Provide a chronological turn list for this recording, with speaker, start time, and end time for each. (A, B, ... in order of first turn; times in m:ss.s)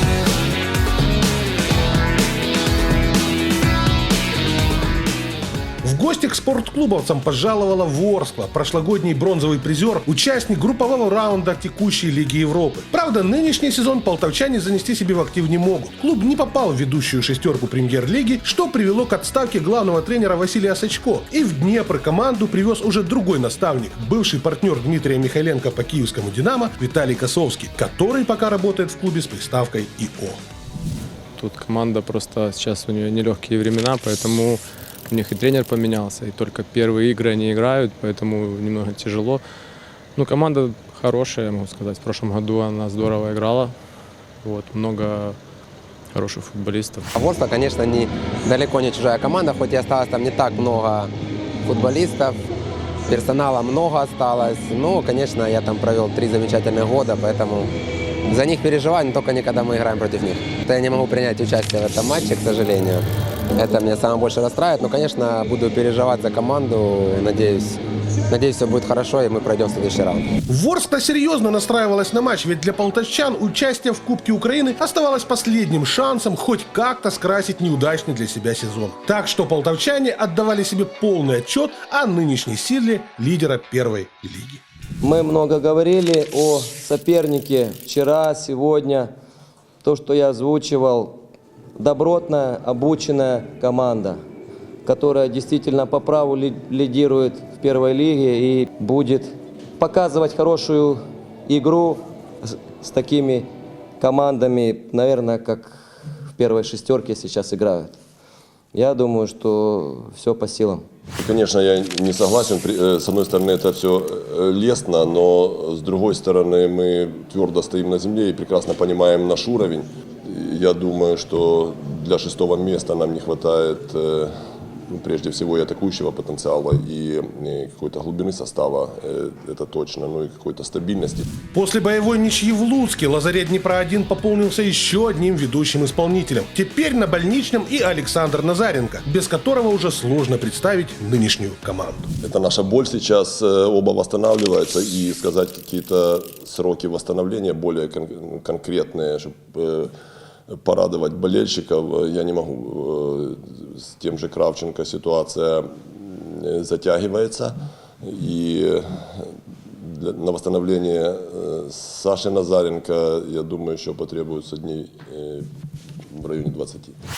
0:05.8-0:30.4 A
0:31.4-0:39.4 B
0:40.2-0:43.7 B
0:44.4-0:45.4 B
0:46.1-0:47.1 B
0:47.1-0:51.1 C
0:51.6-0:52.3 C
0:53.1-0:57.7 C
0:58.3-1:10.3 C
1:10.5-1:24.6 A
1:25.0-1:29.1 D
1:29.8-1:31.2 D
1:31.8-1:34.2 D
1:34.8-1:43.5 D
1:44.0-1:48.0 D
1:48.7-1:50.8 D
1:51.1-2:04.3 E
2:04.9-2:11.3 E
2:11.5-2:22.1 A
2:22.2-2:29.9 E
2:30.5-2:45.5 E
2:46.1-2:47.0 E